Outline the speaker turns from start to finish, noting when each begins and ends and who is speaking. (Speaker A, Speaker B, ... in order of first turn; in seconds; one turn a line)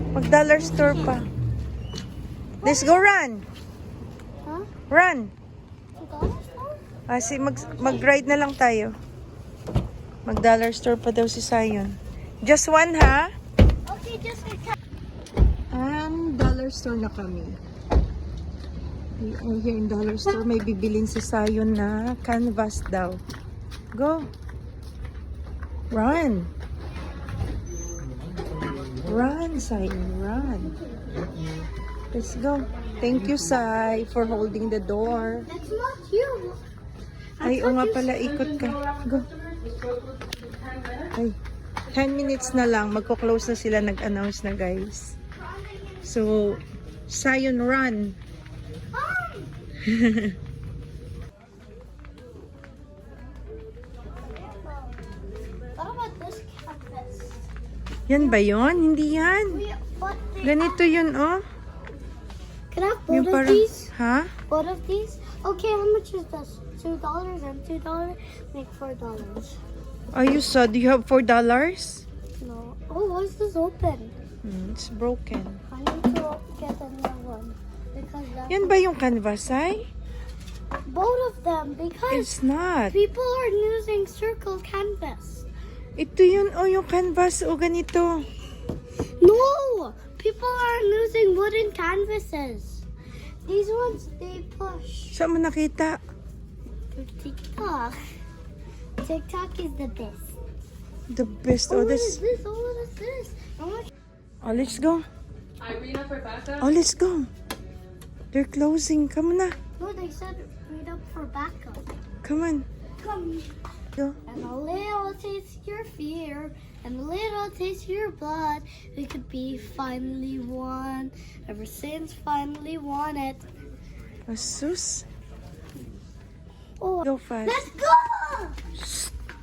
Speaker A: 0.1-1.3
Speaker B: 2.6-3.0
Speaker A: 2.6-3.5
Speaker A: 4.9-5.3
Speaker B: 6.0-6.8
Speaker A: 7.1-8.9
Speaker A: 10.2-13.3
Speaker B: 13.8-14.8
Speaker A: 15.7-17.6
Speaker A: 19.2-23.2
Speaker A: 23.9-24.3
Speaker A: 25.9-26.5
Speaker C: 28.0-29.2
Speaker A: 29.1-30.7
Speaker C: 31.1-31.7
Speaker A: 32.1-35.5
Speaker C: 33.1-33.5
Speaker B: 35.4-36.6
Speaker B: 37.4-38.8
Speaker A: 37.4-39.3
Speaker C: 39.4-41.0
Speaker A: 41.9-45.1
Speaker B: 45.4-46.2
Speaker A: 46.0-48.2
Speaker B: 48.9-49.5
Speaker A: 49.8-50.4
Speaker B: 54.2-55.0
Speaker B: 55.8-57.4
Speaker A: 58.1-59.6
Speaker B: 59.5-60.8
Speaker A: 60.4-61.4
Speaker B: 62.7-63.9
Speaker A: 63.1-64.3
Speaker B: 64.5-69.6
Speaker A: 70.1-72.0
Speaker B: 72.4-74.1
Speaker A: 74.4-75.6
Speaker B: 75.7-78.7
Speaker A: 78.5-79.9
Speaker B: 80.9-82.3
Speaker A: 82.1-82.9
Speaker B: 82.9-85.4
Speaker A: 86.0-88.3
Speaker B: 89.2-92.8
Speaker B: 93.5-95.2
Speaker A: 95.1-96.0
Speaker B: 96.9-98.0
Speaker B: 99.0-100.3
Speaker A: 101.1-102.2
Speaker B: 101.7-103.9
Speaker A: 104.4-105.0
Speaker C: 105.7-106.6
Speaker A: 106.5-107.3
Speaker A: 108.3-109.5
Speaker B: 109.8-111.8
Speaker A: 112.2-112.7
Speaker B: 113.0-113.5
Speaker B: 114.3-123.4
Speaker A: 124.3-125.0
Speaker B: 126.8-128.6
Speaker A: 127.0-127.7
Speaker A: 128.8-129.1